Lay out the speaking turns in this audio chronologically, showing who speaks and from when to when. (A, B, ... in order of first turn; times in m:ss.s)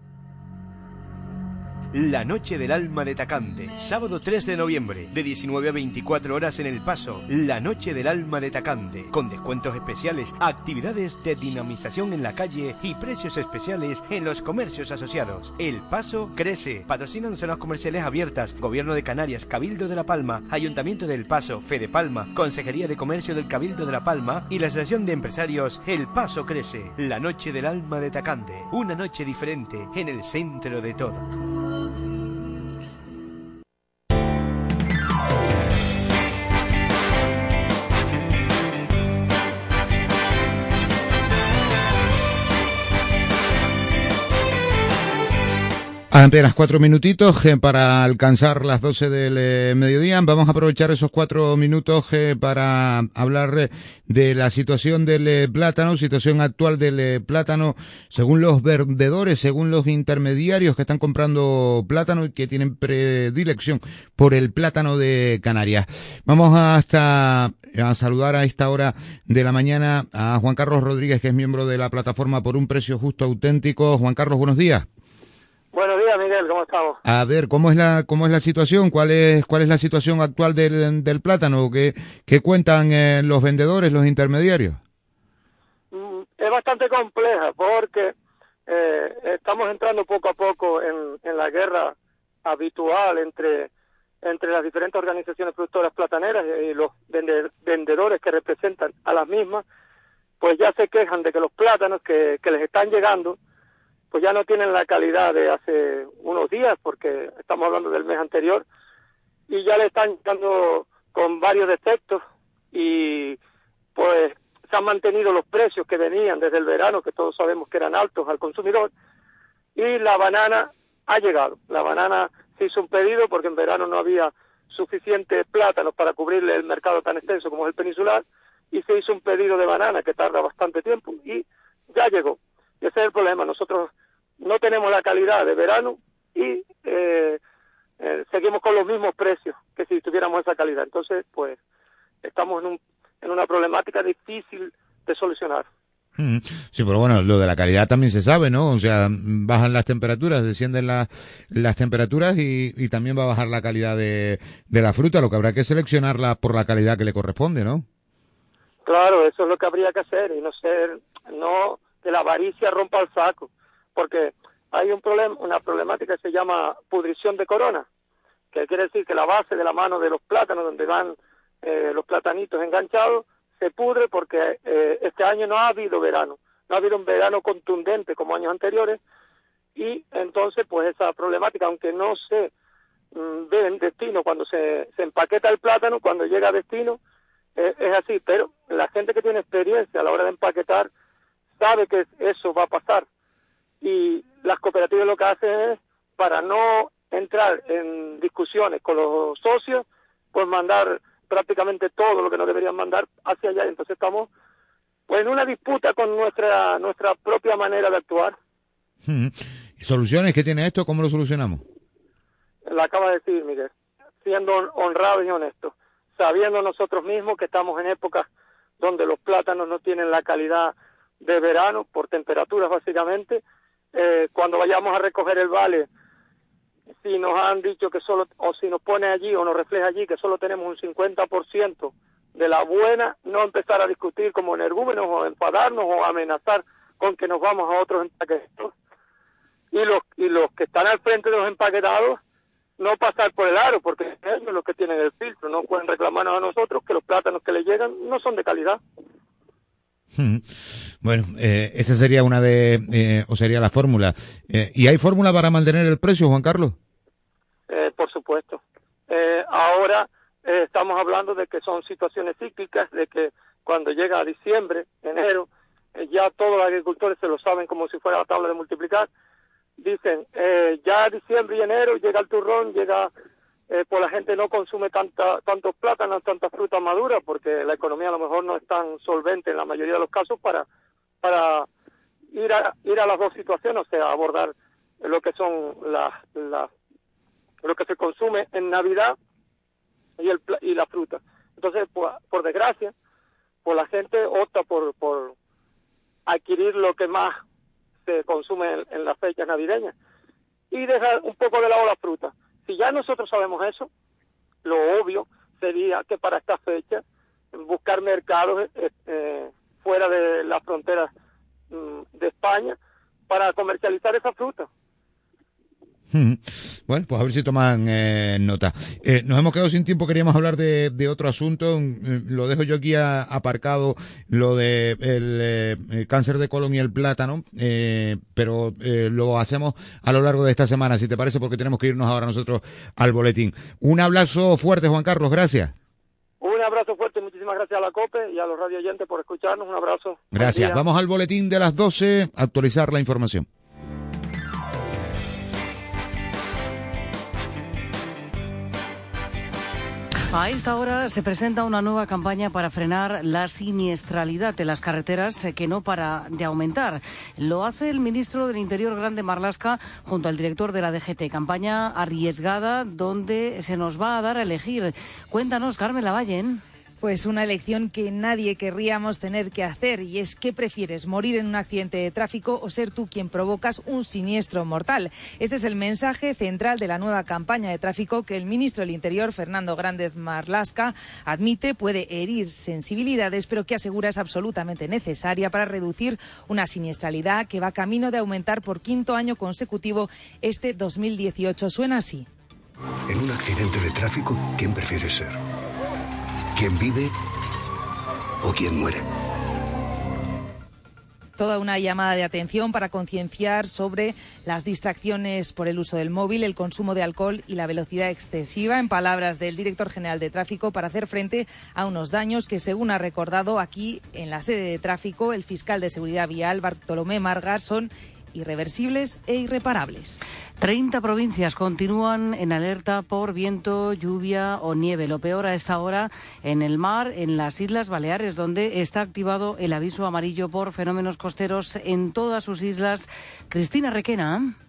0:01.9-0:31.3 A
0:46.1-1:14.9 B
1:15.7-1:17.0 C
1:17.0-1:24.8 B
1:25.9-1:28.1 C
1:28.7-1:31.9 C
1:32.4-1:33.7 C
1:34.2-1:39.6 C
1:40.4-1:43.4 C
1:44.1-1:48.6 C
1:49.5-1:52.2 C
1:52.7-1:53.4 C
1:54.0-1:58.9 C
1:59.8-2:13.9 C
2:14.4-2:17.4 C
2:18.0-2:21.6 C
2:22.2-2:25.7 C
2:26.2-2:37.8 B
2:38.9-2:47.8 C
2:48.5-2:59.0 C
2:59.8-3:02.5 C
3:03.2-3:07.0 C
3:07.6-3:10.9 C
3:11.6-3:13.0 C
3:13.8-3:24.3 C
3:25.1-3:28.4 C
3:29.0-3:31.6 B
3:32.7-3:33.7 C
3:34.2-3:38.3 C
3:38.8-3:43.4 C
3:43.9-3:45.9 C
3:47.0-3:58.7 C
3:59.7-4:02.2 C
4:02.8-4:08.8 C
4:10.2-4:10.5 B
4:11.0-4:16.8 B
4:17.7-4:29.1 C
4:29.8-4:33.1 C
4:33.7-4:40.6 C
4:41.2-4:41.7 C
4:42.3-4:46.7 C
4:47.6-4:49.2 C
4:50.2-4:52.9 C
4:53.6-4:55.3 C
4:56.3-4:57.4 C
4:58.1-4:59.9 C
5:00.7-5:03.9 C
5:04.6-5:07.0 C
5:07.5-5:11.1 C
5:11.7-5:12.8 C
5:13.3-5:14.7 C
5:16.1-5:35.7 B
5:36.4-5:40.8 C
5:40.3-5:43.5 B
5:50.3-6:06.6 D
6:07.0-6:32.3 E
6:33.1-6:35.4 F
6:36.6-6:37.2 F
6:38.4-6:39.1 F
6:41.4-7:00.2 E
7:00.6-7:14.6 D